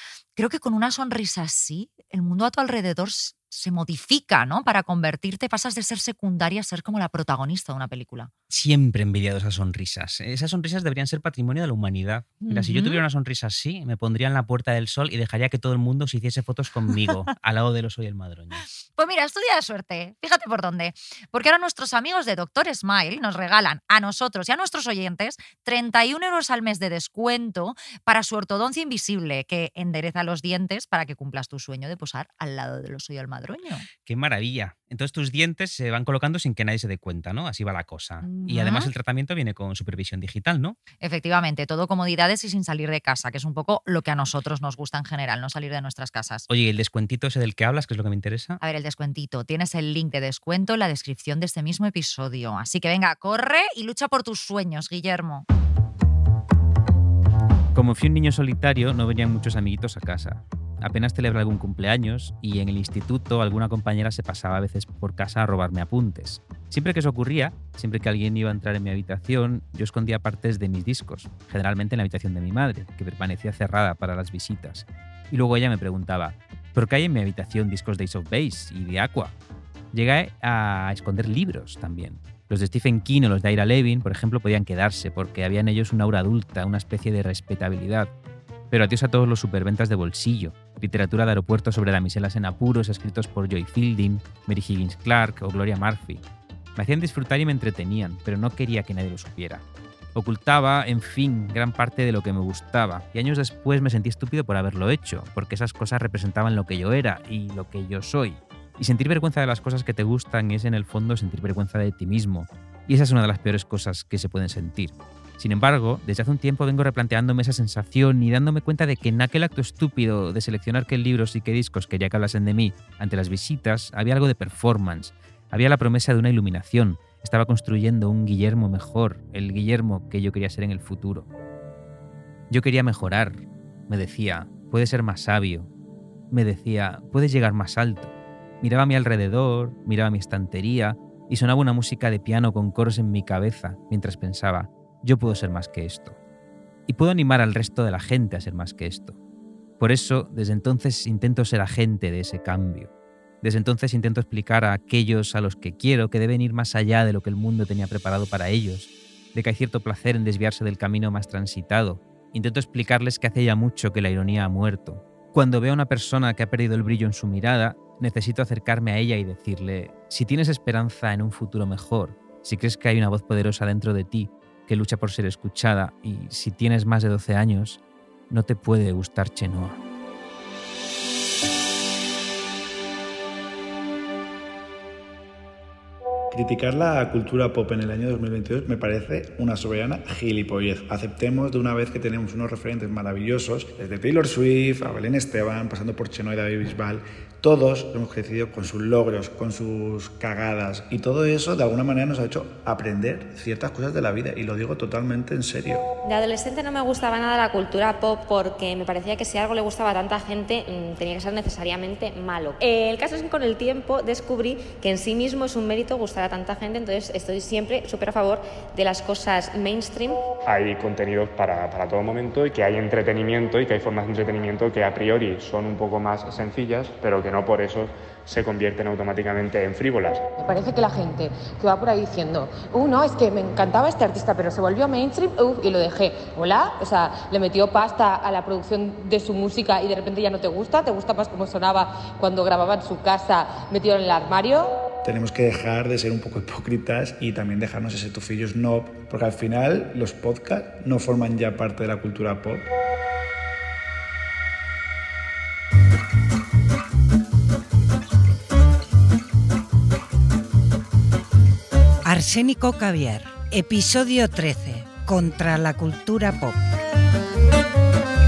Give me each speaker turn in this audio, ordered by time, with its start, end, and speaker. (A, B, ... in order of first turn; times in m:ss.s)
0:00.4-0:08.3 A
0:08.5-0:18.6 B
0:12.4-0:13.0 A
0:19.0-0:33.9 A
0:34.0-0:40.8 B
0:38.2-0:38.9 A
0:41.0-0:46.5 A
0:46.5-0:48.6 B
0:48.6-0:55.4 A
0:57.7-1:19.4 B
1:19.9-1:28.1 B
1:28.7-1:36.2 B
1:36.8-1:39.6 B
1:40.1-2:11.3 B
2:12.5-2:15.7 B
2:16.3-2:26.2 B
2:26.9-2:29.2 B
2:29.8-2:32.9 B
2:33.4-2:59.8 B
3:06.3-3:25.8 C
3:26.0-3:40.2 D
3:40.4-3:50.2 E
3:50.4-4:04.7 F
4:05.0-4:12.7 C
4:22.0-4:26.6 G